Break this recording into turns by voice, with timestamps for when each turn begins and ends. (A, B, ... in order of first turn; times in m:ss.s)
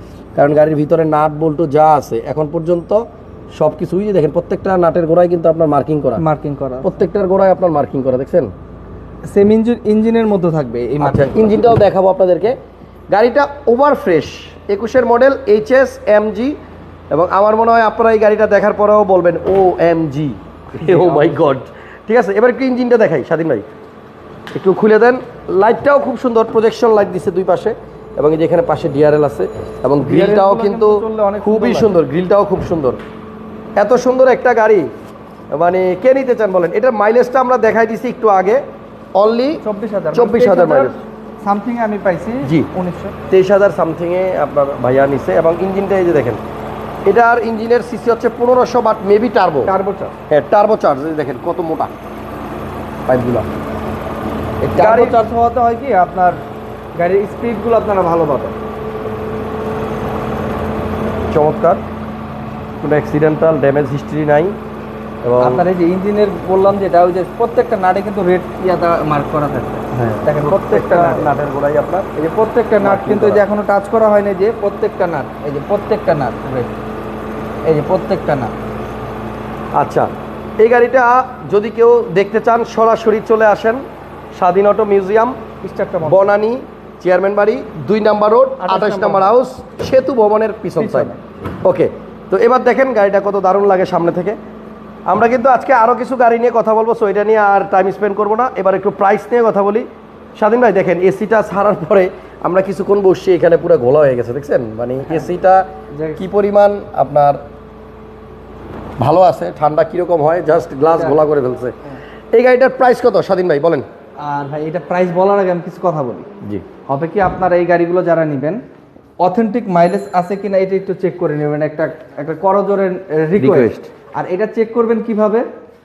0:00.3-0:03.0 A
0:03.6-0:06.2 A
0:06.2-0:07.0 B
0:06.8-0:08.5 A
0:09.2-0:11.6 B
0:11.0-0:12.6 A
0:13.1-0:16.5 A
0:17.1-0:23.6 A
0:20.7-0:21.6 B
0:24.5-0:33.0 A
0:30.0-0:31.9 B
0:33.8-0:34.9 A
0:35.5-0:38.6 A
0:39.2-0:39.6 A
0:39.6-0:43.2 B
0:40.1-0:40.9 A
0:42.4-0:42.7 A
0:43.3-0:46.4 A
0:47.1-0:49.7 A
0:49.6-0:50.1 B
0:50.3-0:51.9 A
0:53.1-0:53.5 A
0:54.6-0:56.4 B
0:54.8-0:55.2 A
0:57.0-0:58.6 B
1:01.3-1:01.8 A
1:02.8-1:04.6 A
1:05.2-1:05.6 A
1:05.4-1:11.3 B
1:09.9-1:12.1 A
1:12.2-1:16.7 B
1:12.8-1:13.4 A
1:17.6-1:18.5 B
1:19.7-1:23.8 A
1:24.3-1:25.4 A
1:25.6-1:26.3 B
1:26.0-1:31.1 A
1:28.6-1:29.4 B
1:30.8-1:31.2 B
1:31.6-1:34.4 A
1:35.1-1:47.4 A
1:45.0-1:45.3 B
1:45.9-1:46.2 B
1:49.0-1:51.7 A
1:50.9-1:51.2 B
1:52.3-1:53.8 A
1:54.2-1:56.3 B
1:56.9-1:58.6 B
1:59.2-2:05.4 B
2:03.4-2:03.9 A